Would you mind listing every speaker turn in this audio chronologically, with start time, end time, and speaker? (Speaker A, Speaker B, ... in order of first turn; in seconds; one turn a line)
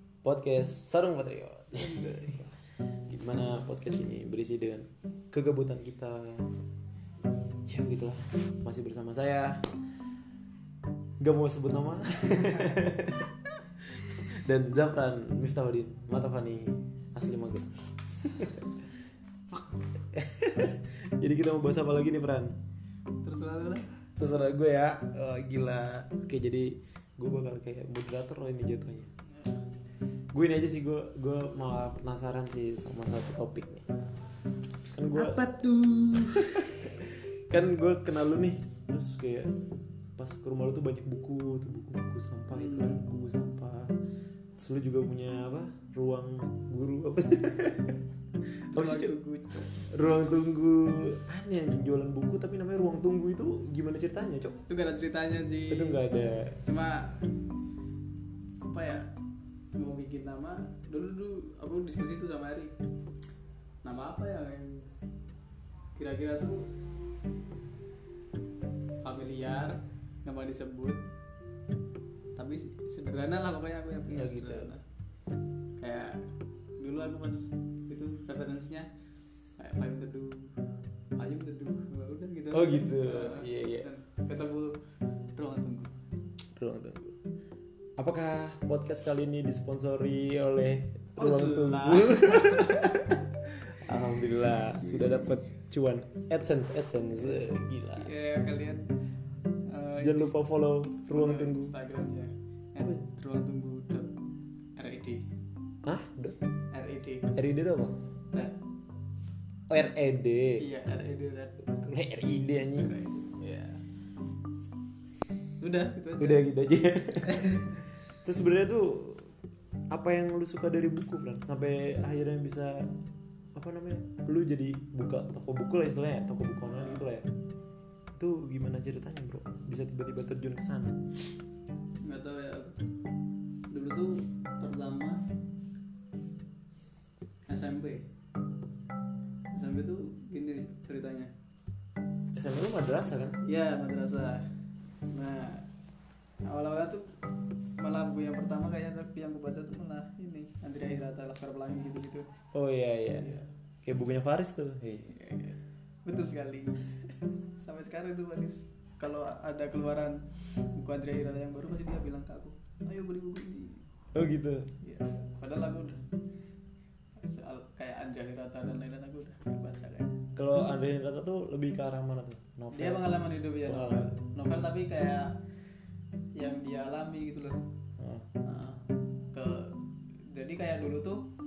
Speaker A: 0.2-2.5
Speaker B: 1.8-2.5
Speaker A: 3.0-6.5
Speaker A: 7.7-9.7
Speaker A: 11.2-18.8
Speaker A: 20.1-22.6
Speaker B: 23.2-23.9
Speaker A: 24.2-29.1
Speaker A: 30.3-33.9
Speaker A: 34.9-35.5
Speaker B: 35.1-36.8
Speaker A: 36.1-39.6
Speaker A: 40.1-43.9
Speaker B: 42.5-43.0
Speaker A: 44.6-48.0
Speaker A: 48.6-49.1
Speaker B: 48.7-49.8
Speaker A: 49.7-54.6
Speaker B: 54.7-56.0
Speaker A: 55.7-56.6
Speaker B: 56.6-57.2
Speaker B: 58.7-59.1
Speaker B: 59.7-62.7
Speaker B: 63.8-64.9
Speaker B: 66.0-66.7
Speaker B: 69.0-71.0
Speaker B: 72.3-74.8
Speaker A: 74.1-74.7
Speaker B: 75.8-76.3
Speaker B: 76.8-78.9
Speaker B: 79.6-80.5
Speaker B: 81.2-84.7
Speaker A: 82.5-83.9
Speaker B: 85.3-85.9
Speaker A: 86.5-87.1
Speaker A: 88.0-98.1
Speaker B: 91.2-93.0
Speaker B: 94.8-95.3
Speaker B: 97.1-98.9
Speaker B: 99.7-100.3
Speaker A: 100.0-101.7
Speaker B: 101.1-104.1
Speaker B: 104.8-105.2
Speaker A: 105.8-106.4
Speaker B: 106.7-107.3
Speaker A: 107.3-108.0
Speaker A: 109.7-110.6
Speaker B: 110.6-111.6
Speaker A: 111.7-112.9
Speaker B: 112.8-113.8
Speaker B: 115.6-116.4
Speaker A: 116.2-119.3
Speaker B: 117.2-117.8
Speaker A: 119.9-122.9
Speaker A: 123.5-127.3
Speaker B: 126.7-127.0
Speaker A: 128.1-131.0
Speaker B: 132.0-132.8
Speaker B: 133.7-135.2
Speaker B: 137.4-138.1
Speaker B: 139.5-141.3
Speaker A: 142.3-143.4
Speaker B: 143.4-144.5
Speaker B: 145.1-145.7
Speaker B: 146.4-147.0
Speaker B: 147.8-152.3
Speaker A: 152.5-155.1
Speaker B: 155.0-156.9
Speaker B: 157.6-160.2
Speaker B: 160.7-163.8
Speaker A: 164.1-164.7
Speaker B: 164.8-166.0
Speaker B: 167.2-170.2
Speaker A: 170.3-174.1
Speaker B: 172.7-175.4
Speaker B: 176.3-177.6
Speaker A: 178.0-178.3
Speaker B: 178.4-179.7
Speaker B: 180.3-181.2